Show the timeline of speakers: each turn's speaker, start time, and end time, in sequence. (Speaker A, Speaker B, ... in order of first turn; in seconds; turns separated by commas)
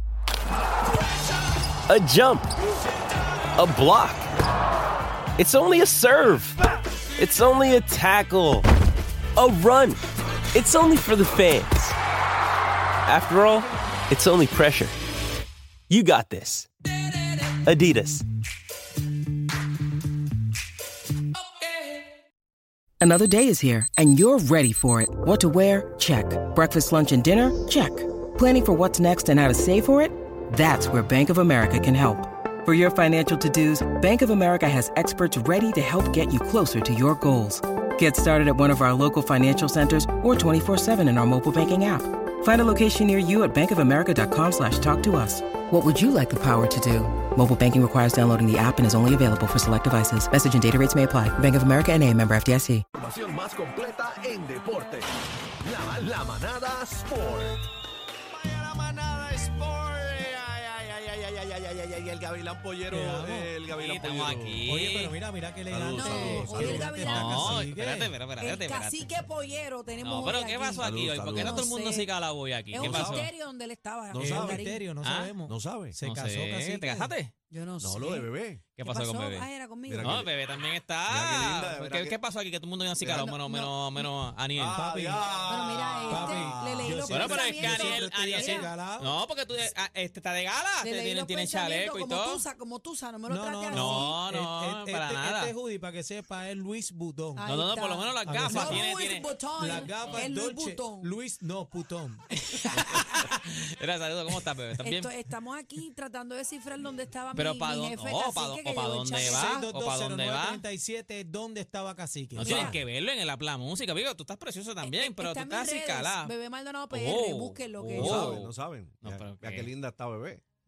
Speaker A: 1.9-2.5, Speaker A: 3.5-4.3, Speaker A: 5.4-6.6, Speaker A: 7.2-8.6, Speaker A: 9.3-10.0, Speaker A: 10.5-11.9, Speaker A: 13.1-14.9, Speaker A: 15.9-16.7, Speaker A: 17.5-18.2, Speaker B: 23.0-52.8, Speaker C: 53.0-55.0, Speaker C: 55.6-57.6, Speaker D: 58.3-64.6, Speaker E: 62.9-63.5, Speaker F: 63.7-65.2, Speaker E: 64.7-68.1, Speaker D: 65.7-67.0, Speaker G: 65.9-67.6, Speaker F: 66.6-69.0, Speaker G: 68.4-72.1, Speaker F: 70.0-73.3, Speaker D: 70.8-71.7, Speaker G: 72.7-74.8, Speaker D: 72.8-73.3, Speaker D: 74.1-74.7, Speaker E: 74.2-77.1, Speaker F: 75.0-75.3, Speaker D: 75.4-76.0, Speaker F: 76.0-77.3, Speaker G: 77.5-80.2, Speaker D: 77.8-78.6, Speaker F: 78.8-79.5, Speaker D: 79.9-80.3, Speaker F: 80.0-84.8, Speaker D: 81.1-82.2, Speaker D: 83.0-83.3, Speaker G: 83.1-84.1, Speaker D: 84.6-87.0, Speaker E: 84.7-85.3, Speaker G: 85.4-88.7, Speaker E: 86.1-89.1, Speaker F: 87.1-92.4, Speaker G: 90.8-94.2, Speaker E: 93.3-97.5, Speaker F: 93.7-95.5, Speaker G: 97.3-101.1, Speaker F: 97.5-99.3, Speaker E: 98.2-98.9, Speaker E: 99.6-102.2, Speaker F: 102.4-105.1, Speaker G: 102.6-103.2, Speaker G: 104.8-109.6, Speaker F: 107.3-110.6, Speaker E: 109.1-112.7, Speaker F: 112.3-116.3, Speaker G: 112.4-112.8, Speaker G: 114.8-118.4, Speaker F: 116.9-119.7, Speaker D: 118.0-120.4